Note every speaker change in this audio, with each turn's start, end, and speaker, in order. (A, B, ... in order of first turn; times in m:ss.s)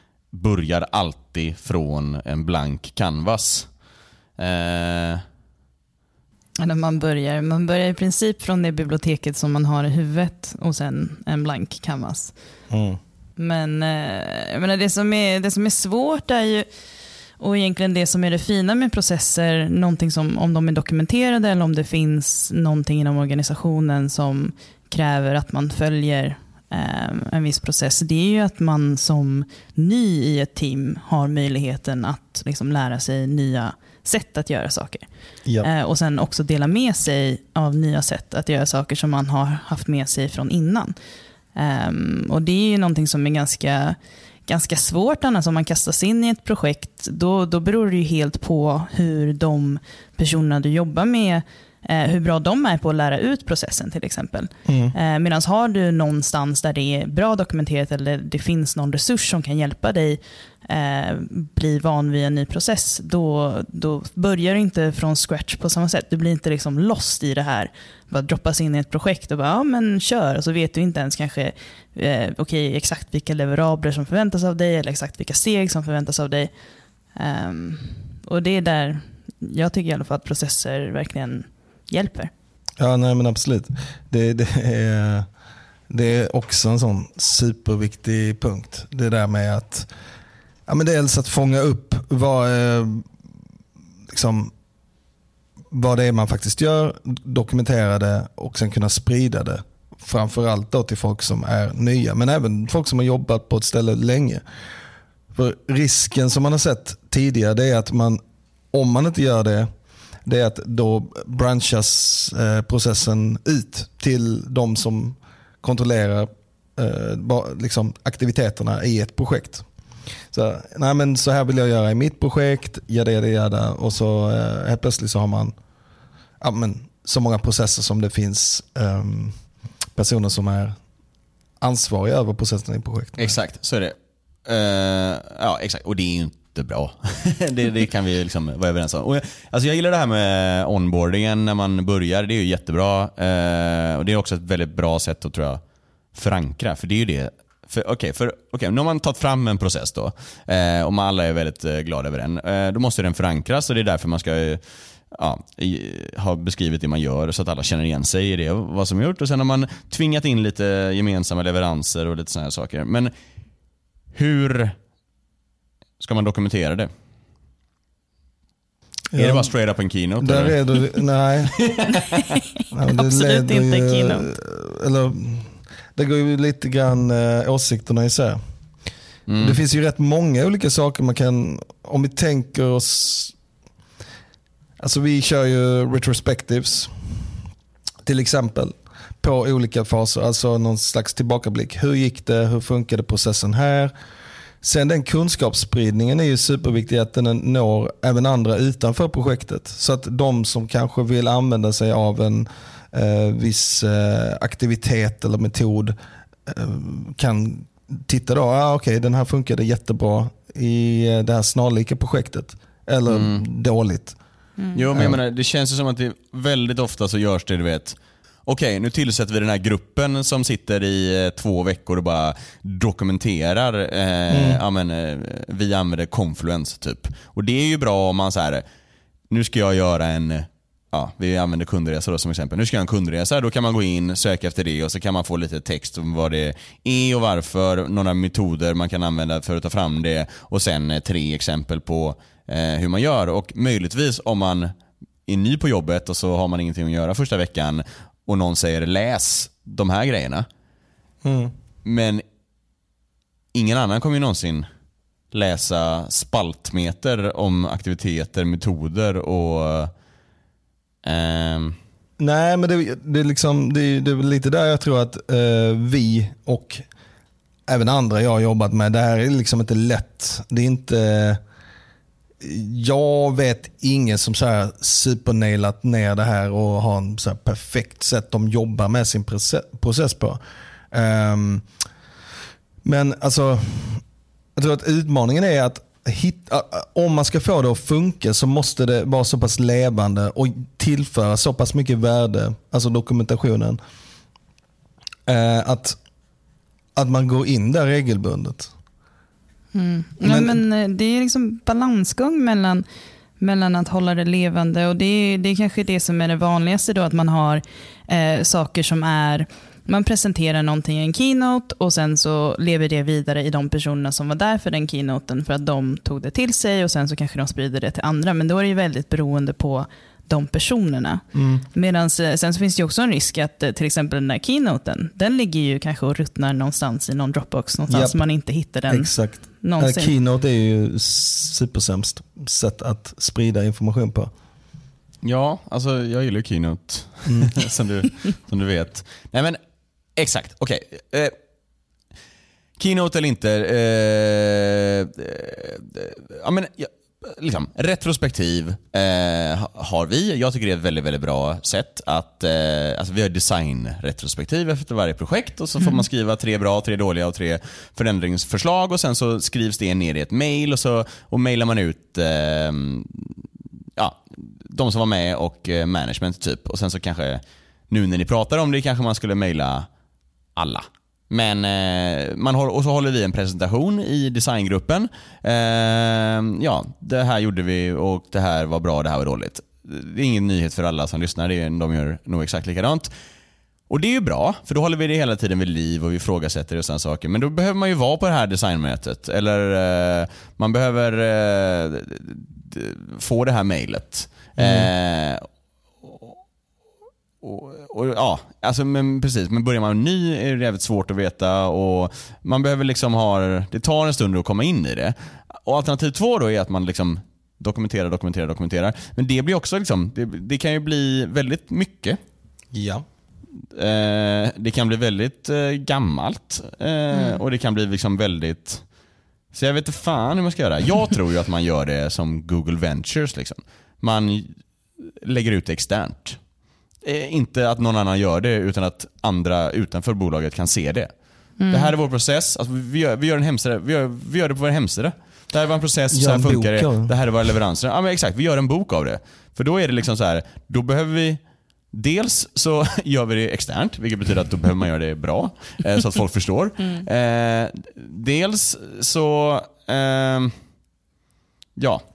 0:00.3-0:03.7 A
0:04.4-0:05.2 A
0:06.6-0:12.3 B
0:12.7-0:13.0 C
0:13.4-0:16.6 B
0:17.4-0:35.0 B
0:35.6-0:40.9 B
0:41.5-1:16.5 B
0:54.6-0:54.9 C
1:17.2-1:22.3 B
1:22.8-1:25.3 C
1:25.9-1:29.9 C
1:30.7-1:33.0 C
1:34.1-1:34.5 C
1:35.7-1:44.4 C
1:45.3-1:48.2 C
1:48.7-1:49.7 C
1:50.2-1:59.6 C
2:00.3-2:05.5 C
2:06.4-2:09.4 C
2:09.9-2:10.8 C
2:11.6-2:13.3 C
2:13.2-2:13.9 A
2:14.4-2:25.6 A
2:26.1-2:43.1 A
2:44.1-2:44.7 A
2:46.0-2:46.9 A
2:49.1-2:49.5 C
2:49.1-2:51.0 A
2:50.2-2:51.6 C
2:51.7-2:52.3 A
2:52.7-2:58.4 C
2:52.8-2:54.3 B
2:59.3-2:59.6 A
2:59.4-3:03.3 C
3:04.8-3:07.3 C
3:08.0-3:13.9 C
3:14.6-3:25.9 C
3:26.4-3:34.2 C
3:33.1-3:33.4 A
3:34.6-3:34.8 B
3:34.7-3:48.6 A
3:44.3-3:44.6 C
3:49.3-4:04.7 A
4:05.3-4:10.4 A
4:11.2-4:11.5 C
4:11.8-4:12.2 A
4:13.5-4:14.7 A
4:15.3-4:19.9 A
4:21.0-4:21.8 A
4:22.2-4:26.8 C
4:27.7-4:31.4 C
4:32.4-4:40.4 C
4:40.9-4:41.7 C
4:42.8-4:44.0 C
4:44.6-4:53.8 C
4:55.2-4:56.0 C
4:57.0-4:58.7 C
4:59.7-5:02.8 B
5:00.2-5:00.6 C
5:03.4-5:21.2 B
5:21.3-5:21.6 C
5:21.7-5:30.1 B
5:27.9-5:28.2 C
5:28.9-5:34.3 C
5:35.2-5:39.6 A
5:37.2-5:37.5 C
5:40.2-5:41.3 A
5:42.8-6:03.4 A
5:55.8-5:56.0 B
6:04.0-6:09.9 A
6:10.6-6:23.1 A
6:23.9-6:35.5 A
6:34.6-6:34.9 C
6:36.0-6:36.4 A
6:37.4-6:52.2 A
6:52.7-6:53.0 C
6:53.7-6:58.8 A
6:57.1-6:57.4 B
6:59.5-7:06.4 A
7:07.0-7:30.5 A
7:11.6-7:11.9 B
7:16.1-7:17.1 C
7:31.8-7:32.0 A